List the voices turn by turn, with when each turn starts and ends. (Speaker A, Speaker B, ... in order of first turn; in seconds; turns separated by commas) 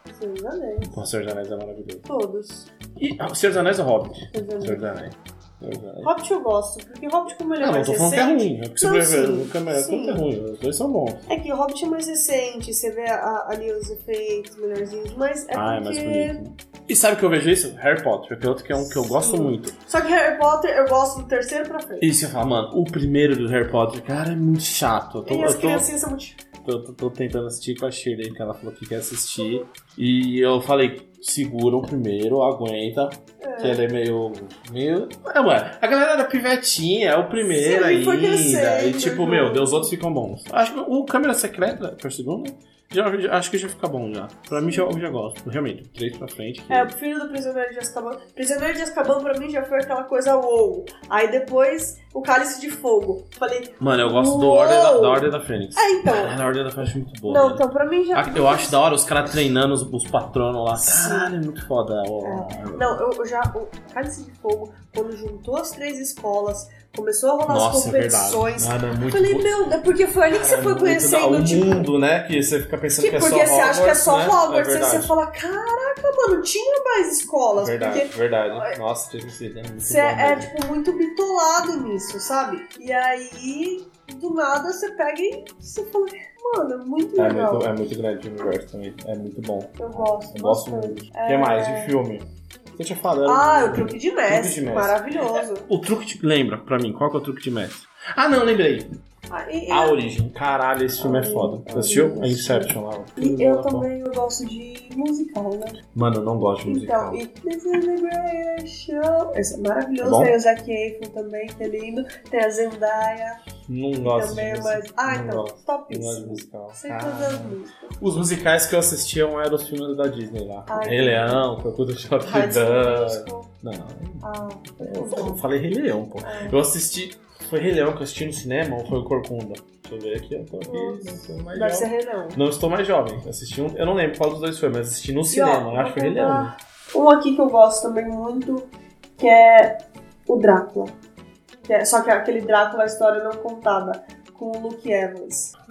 Speaker A: 0.1-1.0, Speaker B: 0.9-2.1, Speaker A: 2.1-2.7, Speaker B: 3.0-6.1, Speaker A: 4.3-4.9, Speaker A: 6.0-10.2, Speaker B: 7.6-11.3, Speaker A: 11.3-16.4, Speaker B: 15.5-19.8, Speaker A: 18.8-22.1, Speaker B: 22.0-25.9, Speaker A: 25.2-26.4, Speaker B: 26.6-46.9, Speaker A: 29.4-29.6, Speaker A: 33.4-33.8, Speaker A: 37.4-40.0, Speaker A: 44.5-44.9, Speaker A: 46.7-56.4, Speaker B: 53.8-63.0, Speaker A: 57.3-58.8, Speaker A: 60.8-61.3, Speaker A: 62.2-71.9, Speaker B: 67.5-69.5, Speaker B: 70.3-75.1, Speaker A: 73.0-78.8, Speaker B: 77.6-80.5, Speaker A: 79.8-87.7, Speaker B: 87.2-98.9, Speaker A: 89.8-92.0, Speaker A: 93.2-95.7, Speaker A: 99.3-100.0, Speaker B: 99.7-103.9, Speaker A: 101.0-105.8, Speaker B: 106.0-107.2, Speaker A: 106.7-113.4, Speaker B: 110.0-110.3, Speaker B: 113.7-124.3, Speaker A: 114.0-118.0, Speaker A: 120.7-121.5, Speaker A: 122.2-123.5, Speaker A: 124.2-125.5, Speaker B: 124.8-136.5, Speaker A: 126.2-126.6, Speaker A: 130.7-132.4, Speaker A: 135.3-140.9, Speaker A: 141.7-145.5